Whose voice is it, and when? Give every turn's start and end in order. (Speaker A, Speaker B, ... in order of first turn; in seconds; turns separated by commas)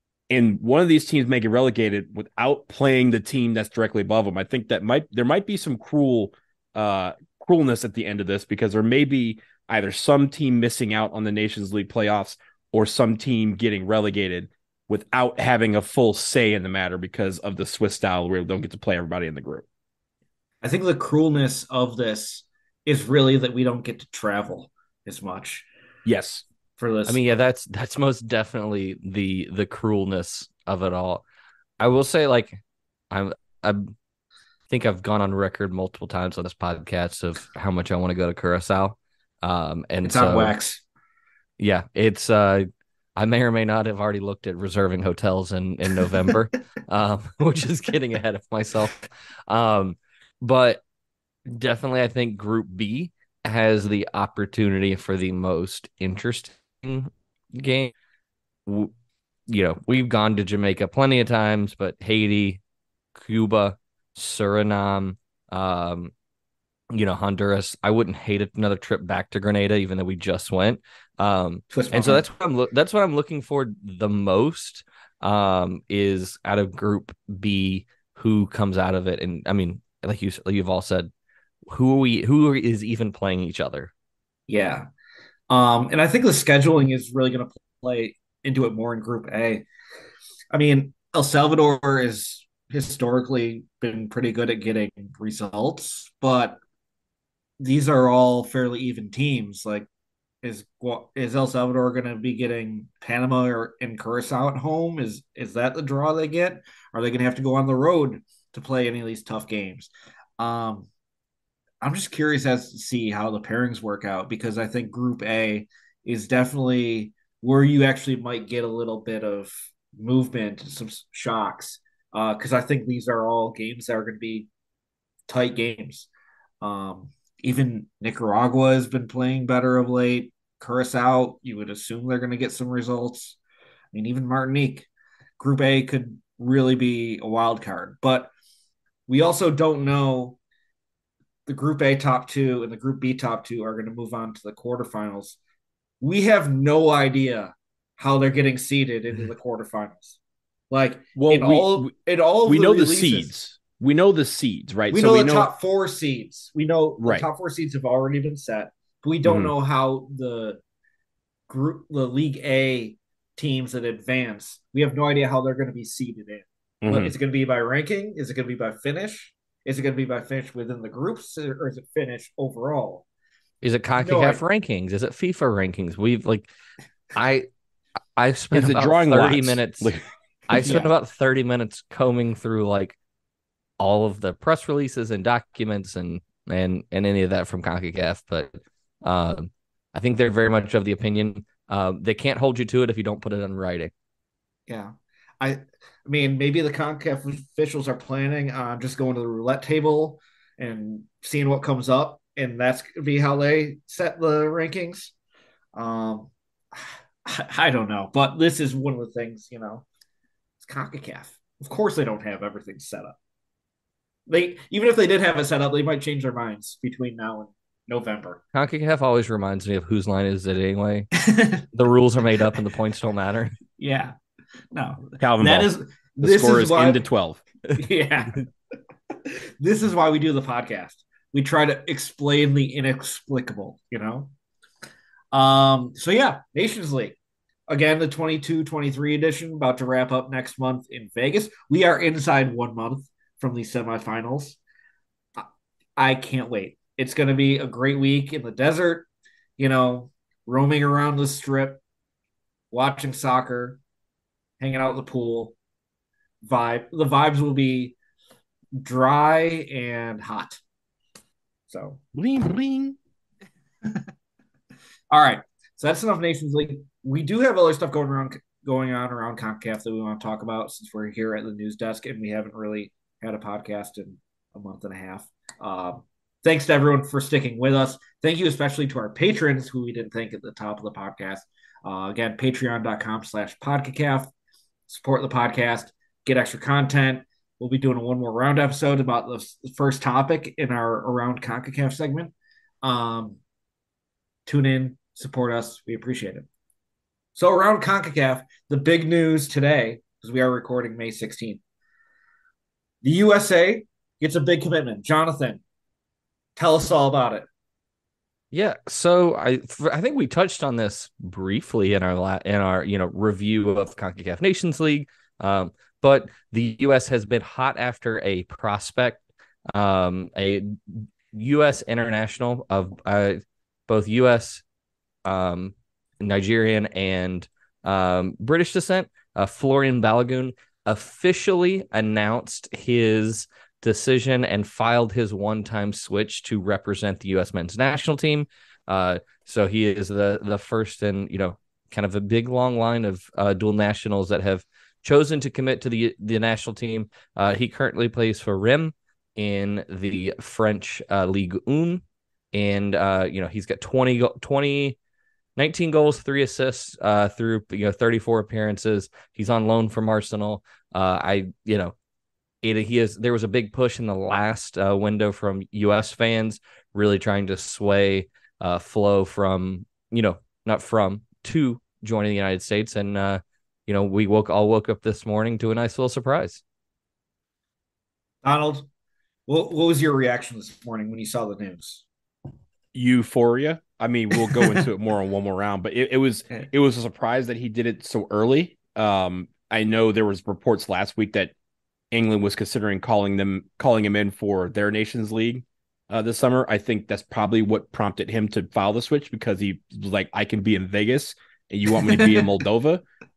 Speaker A: 0.3-19.6, Speaker B: 20.6-25.7, Speaker A: 26.1-26.4, Speaker B: 26.8-27.2, Speaker C: 27.1-31.2, Speaker C: 31.8-32.6, Speaker C: 33.1-33.9, Speaker C: 34.7-40.6, Speaker B: 40.0-40.8, Speaker C: 41.6-50.8, Speaker C: 51.5-57.9, Speaker C: 58.7-58.9, Speaker C: 59.5-62.6, Speaker C: 63.2-66.1, Speaker C: 66.9-81.1, Speaker B: 71.7-72.2, Speaker C: 81.7-83.9, Speaker B: 84.5-84.9, Speaker B: 85.5-89.7, Speaker B: 90.5-96.6, Speaker B: 97.6-99.9, Speaker B: 100.4-110.9, Speaker B: 111.8-124.5, Speaker B: 125.3-126.1, Speaker B: 126.6-133.4, Speaker B: 133.9-138.3, Speaker B: 139.1-140.4, Speaker B: 141.5-145.4, Speaker B: 146.0-150.2, Speaker B: 150.7-153.3, Speaker A: 151.2-151.9, Speaker A: 152.4-155.5, Speaker B: 154.9-160.6, Speaker A: 157.0-157.3, Speaker A: 159.2-159.5, Speaker B: 161.5-173.1, Speaker A: 166.8-167.1, Speaker C: 173.6-176.5, Speaker B: 174.0-174.4, Speaker C: 177.1-177.5, Speaker C: 178.2-179.9, Speaker A: 178.5-180.0, Speaker C: 180.5-183.0, Speaker B: 180.5-180.9, Speaker C: 183.8-193.9, Speaker B: 194.7-205.1, Speaker B: 205.7-209.9, Speaker B: 210.6-213.2, Speaker B: 214.3-218.4, Speaker C: 218.5-221.1, Speaker B: 221.2-221.7, Speaker C: 221.7-223.6, Speaker B: 223.8-224.1, Speaker B: 224.7-227.0, Speaker A: 225.2-225.7, Speaker A: 226.2-227.4, Speaker B: 227.8-228.4, Speaker B: 229.3-234.3, Speaker B: 235.3-237.2, Speaker B: 237.7-244.6, Speaker B: 246.0-251.8, Speaker B: 252.7-253.8, Speaker B: 254.6-255.6, Speaker B: 256.4-258.0, Speaker B: 258.8-260.6, Speaker B: 261.7-262.0, Speaker A: 262.1-263.0, Speaker B: 263.8-264.1, Speaker B: 265.1-284.3, Speaker B: 284.9-293.4, Speaker B: 294.5-296.5, Speaker B: 297.4-301.6, Speaker B: 303.0-305.6, Speaker B: 306.6-307.5, Speaker C: 308.5-324.6, Speaker C: 325.2-352.0, Speaker C: 352.5-355.0, Speaker C: 355.6-361.9, Speaker C: 362.6-376.6, Speaker B: 378.4-378.9, Speaker B: 379.5-382.1, Speaker A: 382.9-391.5, Speaker B: 384.4-384.8, Speaker A: 392.1-403.0, Speaker B: 402.1-402.5